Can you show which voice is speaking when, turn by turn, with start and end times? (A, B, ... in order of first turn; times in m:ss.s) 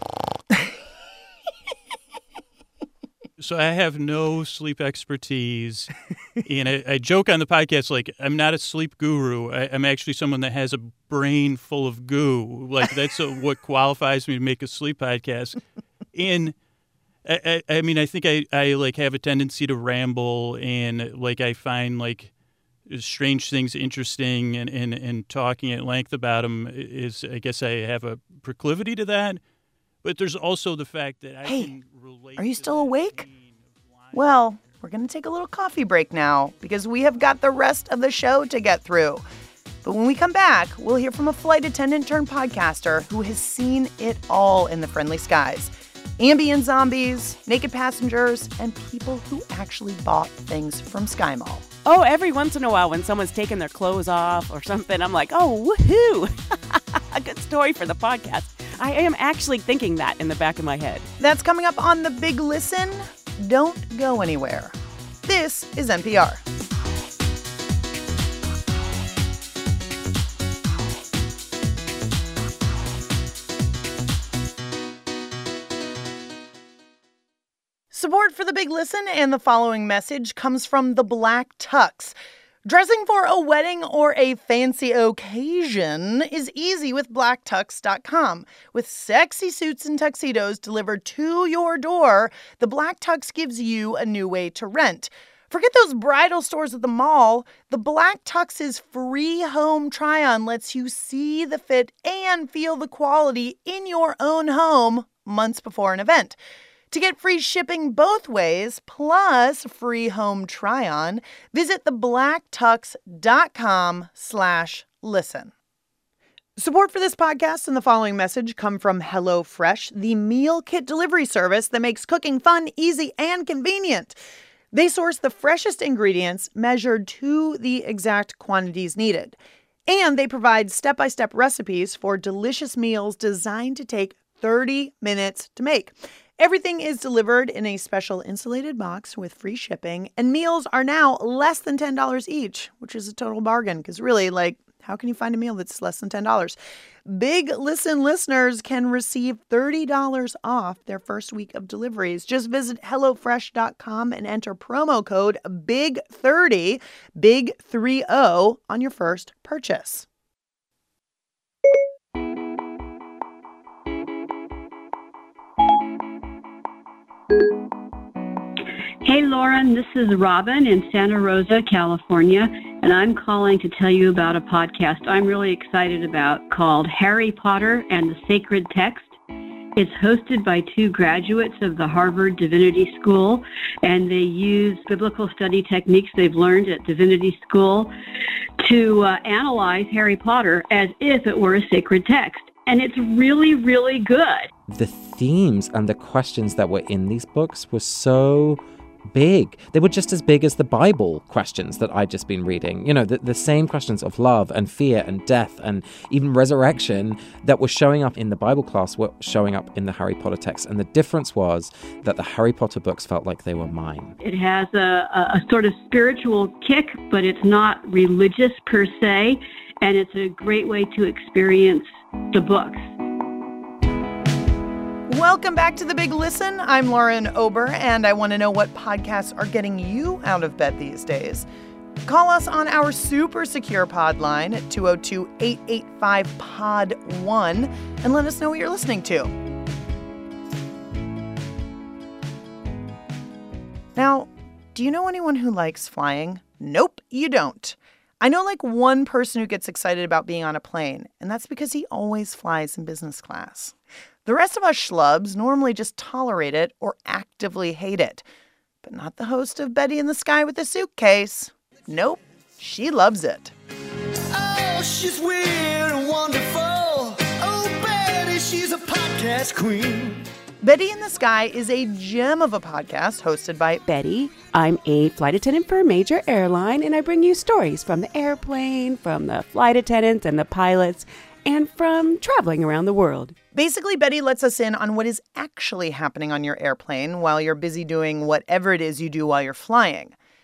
0:03.4-0:15.6 A
0:16.1-0:16.6 A
0:17.2-0:22.3 A
0:22.8-0:29.4 A
0:30.0-0:34.8 A
0:31.4-0:31.8 B
0:32.4-0:33.3 B
0:34.1-0:39.2 B
0:39.8-0:51.6 B
0:51.9-1:01.1 C
1:01.2-1:06.4 B
1:17.9-1:22.1 B
1:22.6-1:46.4 B
1:46.9-1:55.5 B
1:56.6-2:04.2 B
2:04.7-2:40.0 B
2:49.0-2:59.2 D
2:59.8-3:07.9 D
3:08.6-3:14.5 D
3:14.7-3:34.1 E
3:34.2-3:42.8 D
3:45.1-3:51.4 B
3:52.0-3:59.3 B
4:04.0-4:13.7 B
4:14.2-4:18.2 B
4:18.8-4:23.5 B
4:24.3-4:30.2 F
4:30.6-4:33.8 B
4:33.9-4:43.4 C
4:43.5-4:50.1 B